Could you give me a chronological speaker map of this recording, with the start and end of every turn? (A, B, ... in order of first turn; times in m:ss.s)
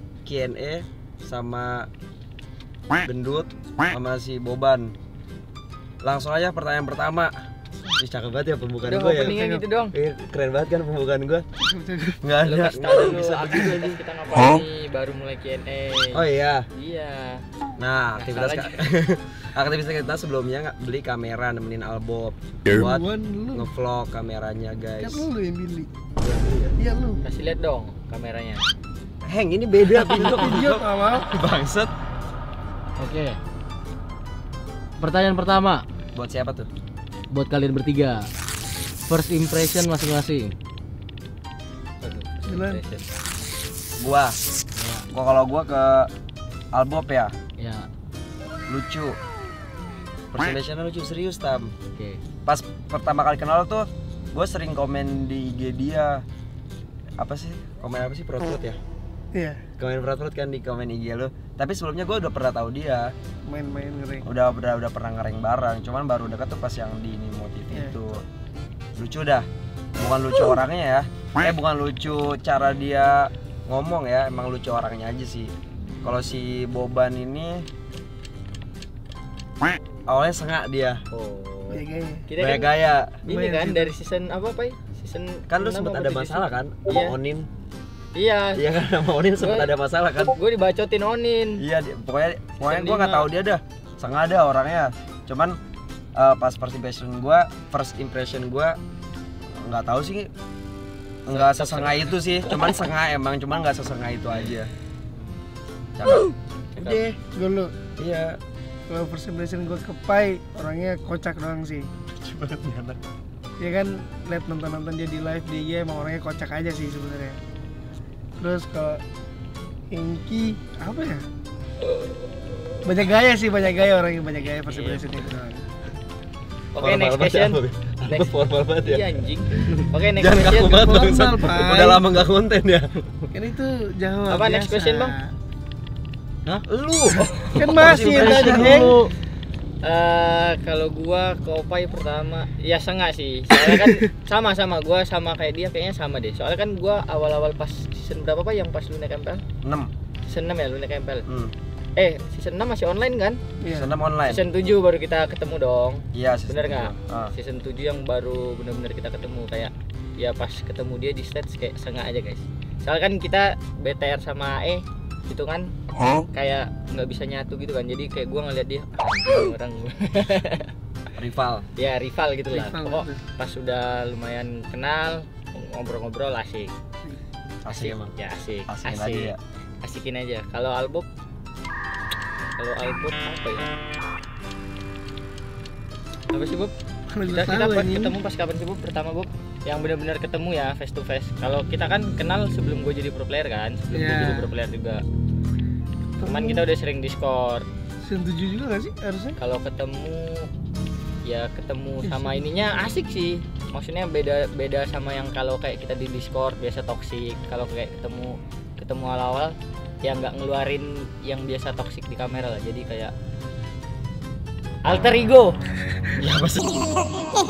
0:00.2-0:01.9 A
0:03.0-0:04.9 A
0:06.0-0:07.3 A
0:08.0-0:09.4 A
0:08.8-0:09.9 B
0:09.1-0:09.6 C
0:09.9-0:11.4 A
0:11.6-0:12.2 C
0:12.2-0:14.0 A
0:12.4-0:17.4 B
0:16.1-0:16.6 A
0:17.8-0:25.3 A
0:18.2-0:18.8 B
0:22.7-0:23.7 C
0:25.0-0:25.9 C
0:26.2-0:26.7 A
0:26.8-0:27.2 C
0:27.2-0:28.6 B
0:29.3-0:31.9 A
0:30.0-0:31.3 C
0:30.2-0:30.5 B
0:33.0-0:33.4 D
0:35.0-0:35.8 D
0:36.2-0:36.7 A
0:37.3-0:38.3 D
0:39.1-0:40.5 D
0:42.0-0:43.1 B
0:42.5-0:42.8 C
0:44.0-0:44.4 A
0:44.8-0:45.0 D
0:45.1-0:46.1 A
0:46.7-0:47.3 A
0:47.6-0:47.9 D
0:48.7-0:49.2 A
0:50.3-0:51.7 A
0:52.0-0:52.2 D
0:52.5-0:56.2 A
0:57.2-0:58.8 A
0:59.3-0:59.7 C
0:59.8-1:03.1 A
1:03.5-1:04.2 C
1:04.2-1:08.2 A
1:07.7-1:08.0 C
1:09.0-1:09.5 A
1:10.0-1:15.5 A
1:16.0-1:17.7 A
1:20.1-1:21.0 A
1:21.1-1:22.7 B
1:21.7-1:22.3 C
1:22.4-1:23.2 A
1:23.2-1:27.2 B
1:23.3-1:23.9 C
1:25.5-1:27.5 A
1:28.2-1:28.6 B
1:28.6-1:30.4 A
1:29.4-1:29.7 B
1:30.2-1:31.6 B
1:31.6-1:35.6 A
1:32.6-1:33.3 B
1:36.2-1:38.8 A
1:39.6-1:40.3 A
1:41.3-1:44.7 A
1:41.3-1:42.7 B
1:46.0-1:47.2 A
1:46.8-1:47.1 B
1:47.3-1:47.8 C
1:48.0-1:48.4 A
1:48.9-1:51.9 C
1:52.1-1:53.0 A
1:53.6-1:57.4 C
1:58.4-1:59.0 C
1:59.9-2:01.2 C
2:02.8-2:05.7 C
2:04.6-2:05.2 B
2:06.8-2:10.9 B
2:06.8-2:09.1 A
2:10.2-2:12.9 A
2:10.6-2:12.0 C
2:13.3-2:15.3 C
2:14.3-2:15.2 B
2:16.7-2:18.9 A
2:17.5-2:19.0 C
2:18.0-2:19.1 D
2:19.8-2:29.4 B
2:29.6-2:29.9 A
2:30.3-2:31.3 B
2:31.3-2:31.5 A
2:32.0-2:33.4 B
2:33.6-2:33.9 C
2:33.7-2:34.4 A
2:34.3-2:45.7 B
2:36.1-2:37.3 A
2:46.3-2:50.7 B
2:51.2-2:51.6 A
2:51.8-2:56.7 B
2:52.5-2:53.2 C
2:57.6-2:58.1 A
2:57.7-3:01.1 B
2:58.7-2:59.4 A
3:02.6-3:03.7 B
3:06.3-3:06.7 B
3:07.1-3:08.2 C
3:07.3-3:15.0 B
3:13.9-3:14.5 C
3:16.2-3:16.6 C
3:16.2-3:17.7 B
3:18.0-3:19.4 C
3:19.4-3:20.5 B
3:21.2-3:33.1 B
3:22.0-3:22.4 C
3:34.8-3:35.6 B
3:36.2-3:37.0 A